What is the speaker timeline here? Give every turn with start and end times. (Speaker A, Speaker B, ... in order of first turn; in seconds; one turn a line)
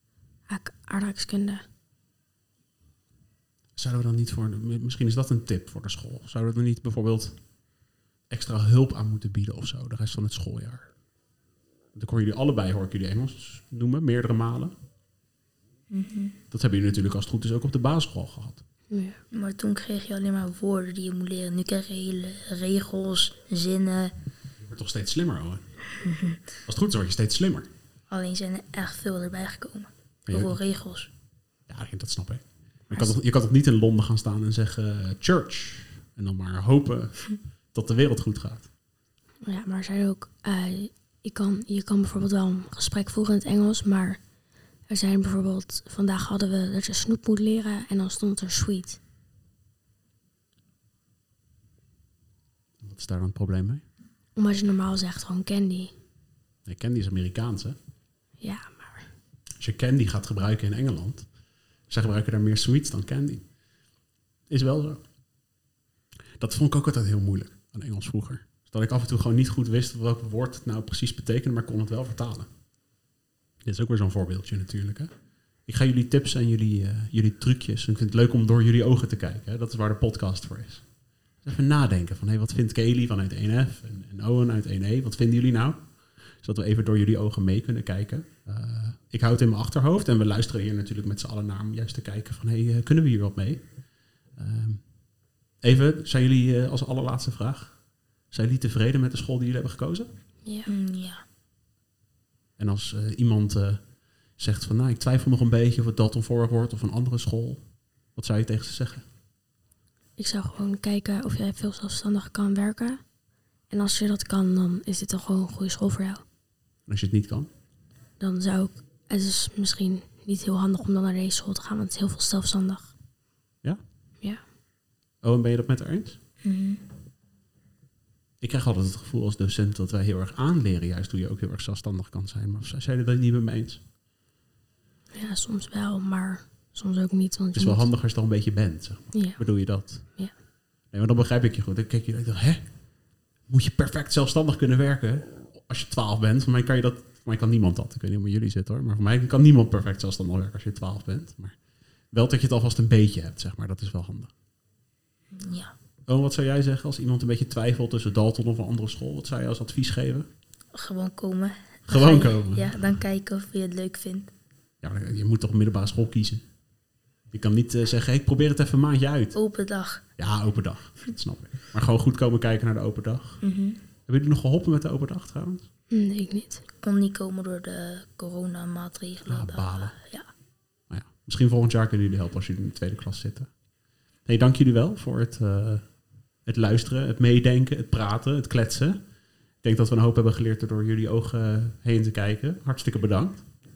Speaker A: 0.5-1.6
Speaker B: 3.8-7.4
Speaker B: 8.3-10.9
Speaker B: 11.9-14.7
Speaker C: 15.9-16.4
Speaker B: 16.5-18.6
Speaker A: 18.9-19.2
Speaker C: 19.3-24.1
Speaker B: 24.6-25.6
Speaker C: 25.9-26.4
Speaker B: 26.6-27.7
Speaker C: 28.1-31.1
Speaker B: 30.3-30.6
Speaker B: 31.7-38.7
Speaker A: 39.4-44.2
Speaker A: 44.9-49.0
Speaker B: 52.8-53.8
Speaker A: 54.4-55.9
Speaker B: 56.6-57.8
Speaker A: 58.4-59.1
Speaker B: 59.6-61.3
Speaker B: 61.9-63.5
Speaker B: 64.5-65.0
Speaker B: 66.3-72.5
Speaker B: 73.6-75.1
Speaker B: 75.7-80.8
Speaker B: 81.4-85.8
Speaker B: 86.4-93.6
Speaker B: 94.3-94.8
Speaker B: 95.6-97.8
Speaker B: 98.3-100.1
Speaker A: 100.4-100.7
Speaker C: 100.7-101.2
Speaker B: 102.6-103.8
Speaker B: 104.4-107.6
Speaker B: 108.1-109.0
Speaker A: 110.2-113.0
Speaker A: 113.7-116.2
Speaker B: 116.8-117.5
Speaker A: 118.2-122.9
Speaker B: 125.2-126.2
Speaker C: 126.4-126.8
Speaker B: 128.4-133.8
Speaker A: 135.1-137.8
Speaker B: 137.5-140.1
Speaker A: 139.1-139.4
Speaker B: 140.9-142.6
Speaker B: 143.5-151.6
Speaker B: 152.1-154.3
Speaker C: 155.3-155.7
Speaker B: 156.1-160.3
Speaker C: 160.7-164.3
Speaker B: 161.9-162.8
Speaker B: 164.8-166.4
Speaker B: 167.3-169.3
Speaker C: 169.3-170.0
Speaker B: 170.2-173.4
Speaker C: 173.4-173.8
Speaker B: 174.1-175.7
Speaker A: 175.9-176.6
Speaker C: 176.8-180.3
Speaker B: 179.2-179.9
Speaker B: 180.9-183.5
Speaker B: 184.2-185.8
Speaker B: 186.4-189.0
Speaker B: 189.6-193.4